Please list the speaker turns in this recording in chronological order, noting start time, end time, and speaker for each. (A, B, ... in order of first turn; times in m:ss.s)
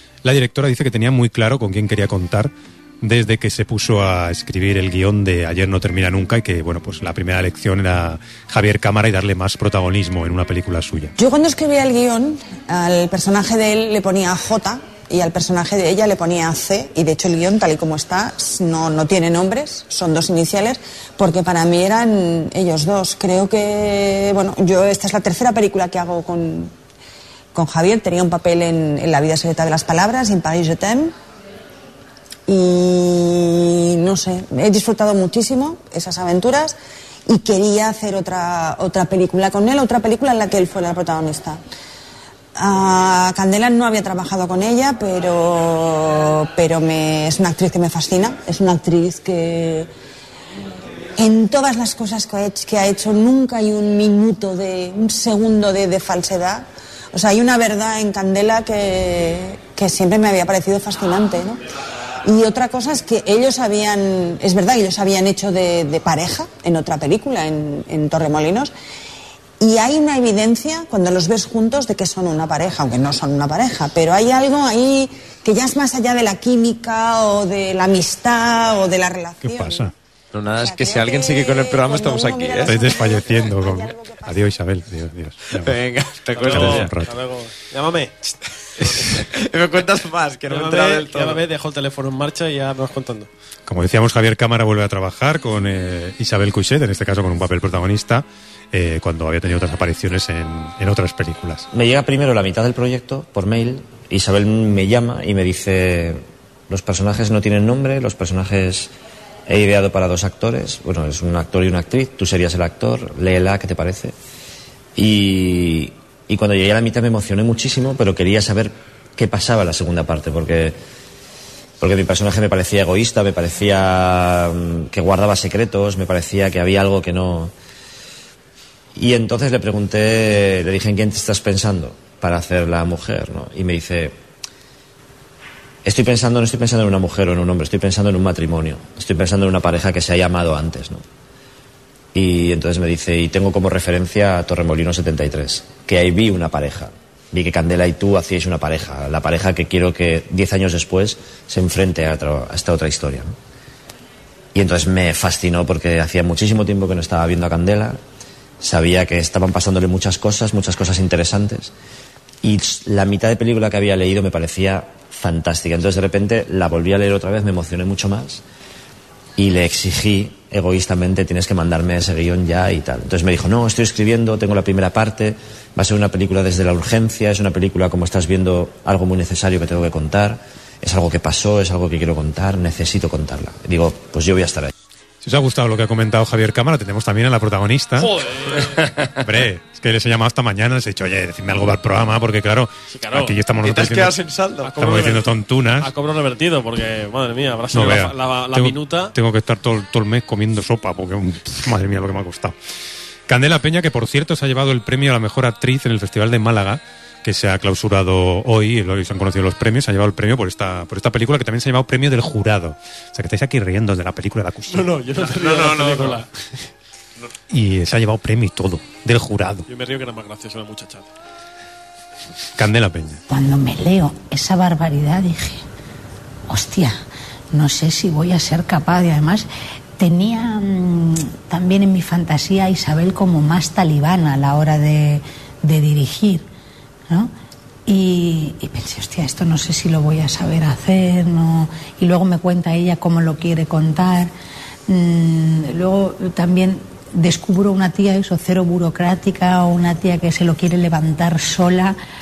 0:00.2-0:11.1 A
0:11.2-0:26.7 B
0:27.5-0:31.1 B
0:32.5-0:41.6 B
0:42.6-0:49.9 B
0:51.2-1:01.6 B
1:02.2-1:08.7 B
1:09.6-1:19.9 B
1:19.4-1:19.9 A
1:20.3-1:22.7 C
1:20.6-1:24.4 B
1:22.6-1:25.8 A
1:25.6-1:26.9 C
1:26.3-1:29.2 D
1:26.4-1:27.1 A
1:28.8-1:31.4 C
1:30.5-1:33.3 D
1:33.7-1:41.6 A
1:41.7-1:48.9 E
1:49.5-1:54.1 E
1:55.0-2:00.8 E
2:01.8-2:07.5 E
2:09.0-2:14.1 E
2:15.8-2:21.0 E
2:22.1-2:33.3 E
2:34.5-2:38.0 E
2:38.6-2:41.7 E
2:42.4-2:48.4 E
2:49.4-3:04.7 E
3:05.2-3:08.2 A
3:08.0-3:08.8 D
3:09.2-3:14.1 A
3:12.9-3:13.4 D
3:13.6-3:14.7 C
3:14.6-3:15.3 D
3:14.7-3:15.9 A
3:15.8-3:19.1 D
3:17.7-3:22.6 A
3:23.3-3:34.9 A
3:34.7-3:36.3 D
3:35.4-3:36.1 C
3:37.5-3:39.6 A
3:39.7-3:41.1 D
3:42.6-3:43.2 A
3:43.3-3:45.6 F
3:46.5-3:47.0 F
3:47.5-3:49.5 F
3:50.0-3:56.4 F
3:57.9-4:04.3 F
4:04.9-4:12.0 F